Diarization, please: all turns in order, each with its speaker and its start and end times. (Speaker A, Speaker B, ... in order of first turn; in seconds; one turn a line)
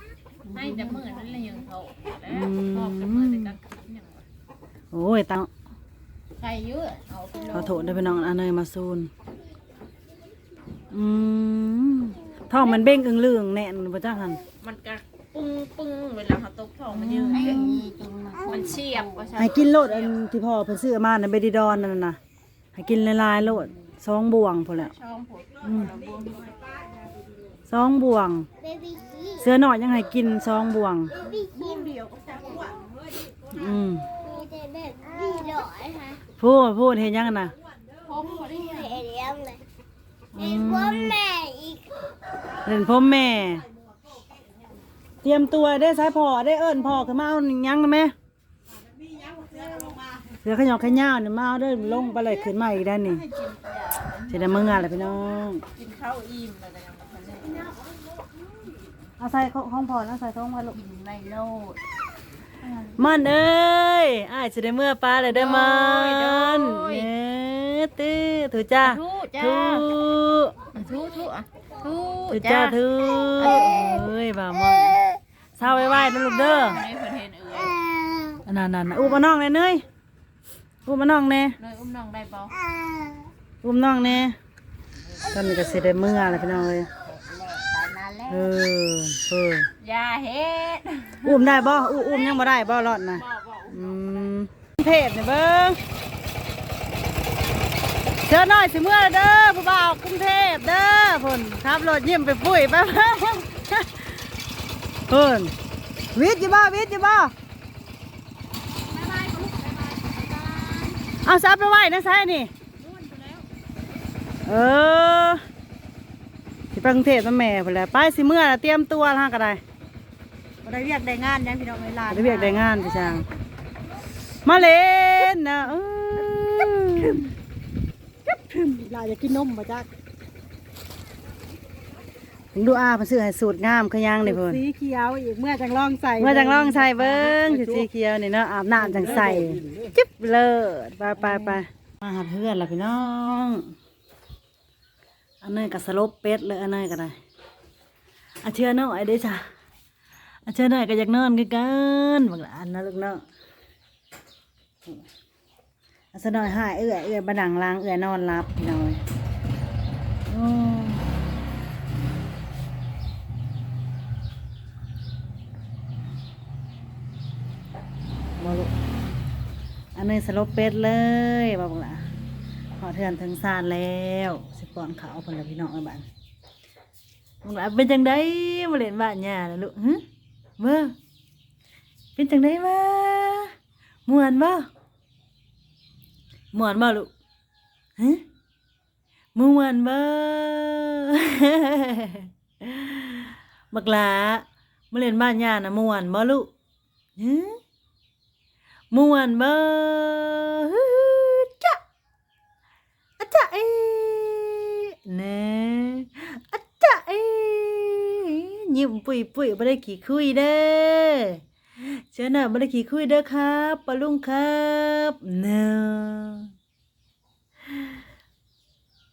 Speaker A: 0.5-4.2
Speaker B: 0.6-1.0
Speaker C: 2.3-3.5
Speaker C: 4.9-5.5
Speaker A: 6.4-7.9
Speaker C: 7.5-9.1
Speaker C: 10.9-14.4
Speaker A: 14.6-17.7
Speaker C: 16.9-17.8
Speaker B: 17.3-19.4
Speaker A: 18.4-20.1
Speaker C: 19.4-22.2
Speaker C: 22.7-24.9
Speaker A: 24.8-26.6
Speaker C: 25.6-25.9
Speaker C: 27.7-28.5
Speaker D: 28.6-29.4
Speaker C: 29.4-31.1
Speaker A: 31.2-32.8
Speaker C: 33.5-34.1
Speaker D: 34.2-36.0
Speaker A: 35.6-36.1
Speaker C: 36.4-37.5
Speaker A: 38.0-39.1
Speaker D: 38.8-39.6
Speaker C: 40.3-41.2
Speaker D: 40.6-41.9
Speaker C: 42.6-43.6
Speaker C: 45.2-48.1
Speaker A: 49.3-50.0
Speaker C: 50.4-53.2
Speaker A: 53.0-55.0
Speaker C: 54.3-55.6
Speaker A: 55.7-57.7
Speaker C: 59.2-60.8
Speaker B: 60.8-61.8
Speaker A: 60.9-61.7
Speaker C: 63.0-70.5
Speaker A: 65.3-67.1
Speaker A: 68.8-69.9
Speaker A: 70.7-72.8
Speaker C: 72.3-75.0
Speaker A: 73.4-74.0
Speaker C: 75.5-76.8
Speaker A: 76.4-77.9
Speaker C: 78.4-79.8
Speaker C: 80.8-81.6
Speaker A: 81.6-82.6
Speaker C: 83.6-84.3
Speaker C: 85.2-86.9
Speaker B: 87.5-88.5
Speaker C: 88.2-89.7
Speaker A: 89.8-91.5
Speaker C: 91.2-95.8
Speaker A: 93.0-94.1
Speaker C: 98.2-104.2
Speaker C: 105.1-105.5
Speaker C: 106.1-107.3
Speaker B: 108.9-111.0
Speaker C: 111.2-112.5
Speaker B: 112.9-113.4
Speaker C: 114.4-115.4
Speaker C: 116.7-119.6
Speaker B: 120.6-122.7
Speaker C: 122.1-123.2
Speaker C: 124.4-127.2
Speaker B: 126.2-126.5
Speaker B: 128.3-129.9
Speaker C: 132.5-134.6
Speaker B: 134.2-137.8
Speaker C: 136.2-143.7
Speaker B: 141.2-141.6
Speaker C: 145.4-147.2
Speaker C: 148.4-149.4
Speaker C: 150.4-153.2
Speaker C: 156.1-159.0
Speaker C: 160.3-161.1
Speaker C: 168.4-168.7
Speaker C: 169.9-172.0
Speaker C: 172.8-176.0
Speaker C: 177.4-180.0
Speaker C: 180.6-180.9
Speaker C: 182.2-183.5
Speaker C: 184.1-184.7
Speaker C: 186.5-187.1
Speaker C: 188.0-188.2
Speaker C: 189.3-196.5
Speaker C: 197.2-197.6
Speaker C: 198.9-201.8
Speaker C: 203.2-216.5
Speaker C: 217.7-218.0